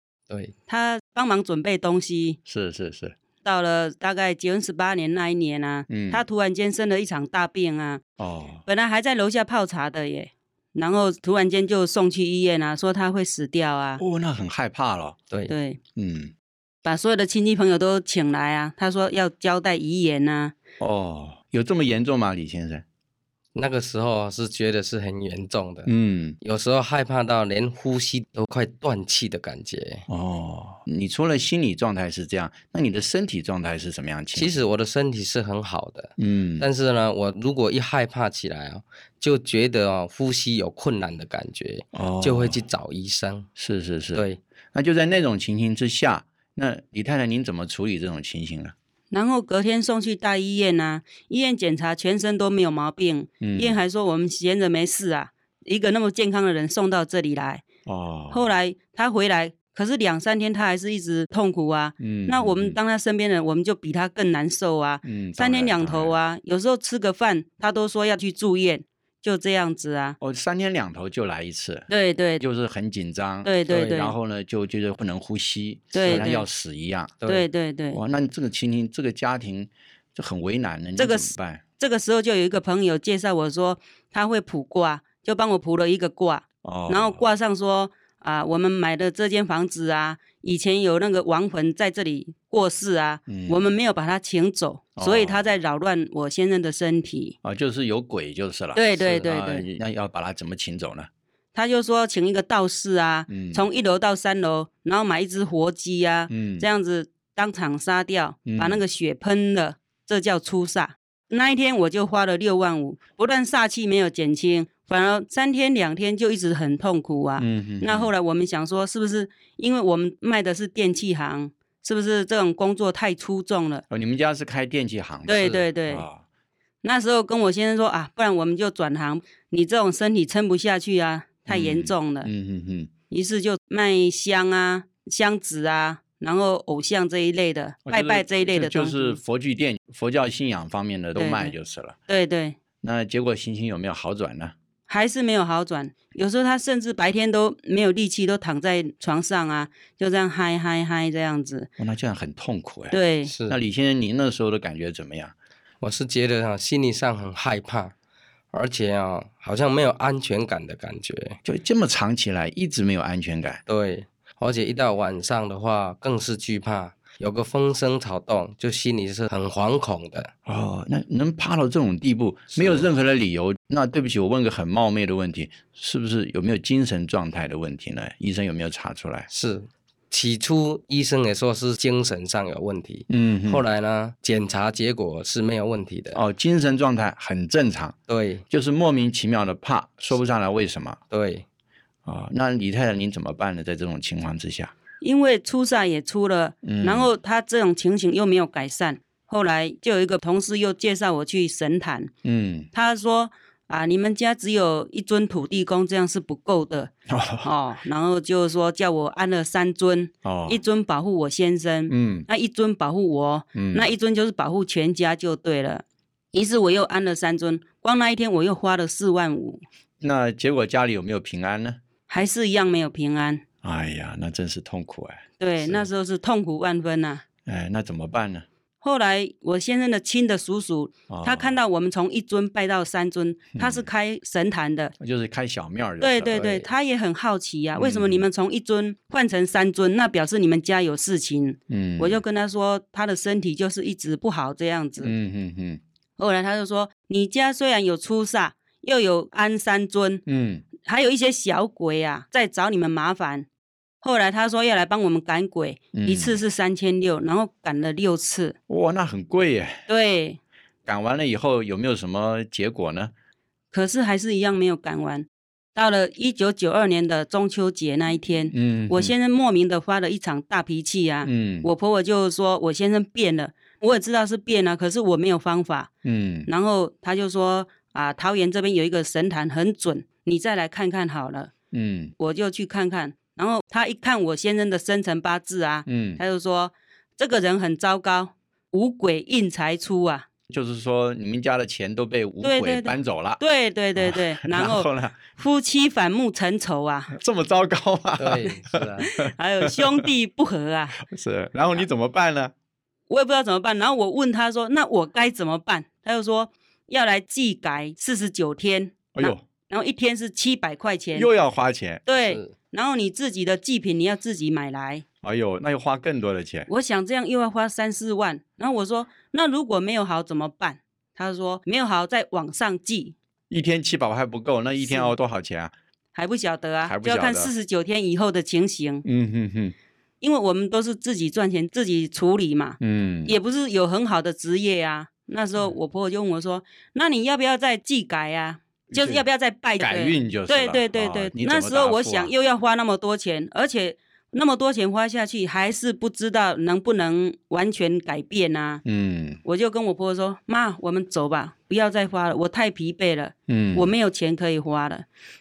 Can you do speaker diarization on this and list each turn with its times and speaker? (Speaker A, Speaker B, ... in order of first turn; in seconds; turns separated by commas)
Speaker A: 0.7-2.4, Speaker B: 2.5-3.1, Speaker A: 3.4-8.0, Speaker B: 5.9-6.2, Speaker B: 8.2-8.6, Speaker A: 8.7-14.0, Speaker B: 14.0-15.2, Speaker A: 15.5-15.8, Speaker B: 15.9-16.3, Speaker A: 16.8-20.5, Speaker B: 20.8-22.8, Speaker C: 23.5-30.1, Speaker B: 25.9-26.4, Speaker B: 30.1-34.5, Speaker C: 34.3-43.5, Speaker B: 36.2-36.6, Speaker B: 41.9-42.6, Speaker B: 43.6-48.7, Speaker C: 44.1-44.4, Speaker A: 49.1-57.6, Speaker B: 53.4-53.8, Speaker B: 57.9-58.4, Speaker A: 58.3-70.2, Speaker B: 62.0-62.8, Speaker B: 65.0-66.2, Speaker B: 70.2-71.9, Speaker A: 71.9-72.4, Speaker B: 72.4-77.2, Speaker A: 73.4-74.1, Speaker A: 75.9-76.4, Speaker C: 76.0-76.3, Speaker A: 77.2-78.0, Speaker B: 77.9-81.6, Speaker A: 81.0-97.3, Speaker B: 86.6-87.2, Speaker B: 93.3-93.7, Speaker B: 95.0-95.4, Speaker B: 97.4-101.1, Speaker A: 98.7-99.7, Speaker A: 101.5-123.8, Speaker B: 103.3-103.6, Speaker B: 106.3-106.7, Speaker B: 108.5-108.8, Speaker B: 117.4-118.1, Speaker B: 123.9-126.2, Speaker A: 125.3-126.1, Speaker A: 126.8-132.3, Speaker B: 131.5-132.9, Speaker A: 133.1-139.2, Speaker B: 137.8-142.0, Speaker A: 141.1-141.5, Speaker A: 142.1-142.6, Speaker B: 142.8-144.5, Speaker A: 144.9-151.7, Speaker B: 151.8-152.9, Speaker A: 152.9-153.3, Speaker C: 153.3-153.6, Speaker B: 153.5-155.3, Speaker C: 155.8-157.9, Speaker C: 158.5-161.4, Speaker B: 161.4-163.6, Speaker C: 163.7-170.3, Speaker B: 170.4-179.3, Speaker C: 172.5-172.9, Speaker C: 179.3-186.2, Speaker B: 183.1-183.6, Speaker B: 186.1-187.9, Speaker C: 188.1-188.4, Speaker B: 188.5-191.0, Speaker C: 191.1-191.4, Speaker B: 192.0-194.7, Speaker A: 195.0-202.1, Speaker B: 196.6-197.1, Speaker B: 202.2-202.7, Speaker A: 202.7-219.6, Speaker B: 207.1-207.5, Speaker B: 210.2-210.6, Speaker B: 211.9-212.3, Speaker B: 213.5-213.9, Speaker B: 220.0-221.8, Speaker A: 222.1-223.4, Speaker B: 223.6-225.8, Speaker A: 225.4-227.2, Speaker B: 227.4-228.4, Speaker A: 228.8-234.9, Speaker B: 231.1-231.6, Speaker B: 233.6-233.9, Speaker B: 235.0-236.4, Speaker A: 236.0-245.1, Speaker C: 236.3-236.6, Speaker B: 237.8-238.2, Speaker B: 241.7-242.2, Speaker B: 245.0-245.8, Speaker A: 246.2-250.2, Speaker B: 250.2-250.6, Speaker A: 250.8-253.5, Speaker A: 254.0-258.6, Speaker B: 255.9-256.4, Speaker B: 258.7-259.8, Speaker A: 259.9-260.4, Speaker B: 260.9-263.1, Speaker A: 263.7-275.9, Speaker B: 268.5-269.1, Speaker B: 271.2-271.7, Speaker B: 276.0-276.5, Speaker A: 276.5-281.5, Speaker B: 281.7-282.1, Speaker A: 282.2-290.2, Speaker B: 285.9-286.2, Speaker B: 290.5-293.4, Speaker A: 292.4-297.1, Speaker B: 294.0-295.2, Speaker B: 297.1-300.1, Speaker C: 298.2-299.1, Speaker A: 299.0-301.0, Speaker B: 301.0-302.5, Speaker A: 303.1-311.3, Speaker B: 309.1-309.4, Speaker B: 311.1-312.1, Speaker A: 312.1-315.0, Speaker C: 312.2-312.5, Speaker B: 315.2-316.7, Speaker A: 316.7-323.1, Speaker B: 323.5-325.7, Speaker A: 324.8-325.1, Speaker A: 326.1-329.0, Speaker B: 326.8-327.5, Speaker B: 329.0-329.7, Speaker A: 330.2-348.8, Speaker B: 332.8-333.3, Speaker B: 338.9-339.2, Speaker B: 339.8-342.3, Speaker B: 348.8-349.4, Speaker A: 349.4-355.1, Speaker B: 353.5-353.9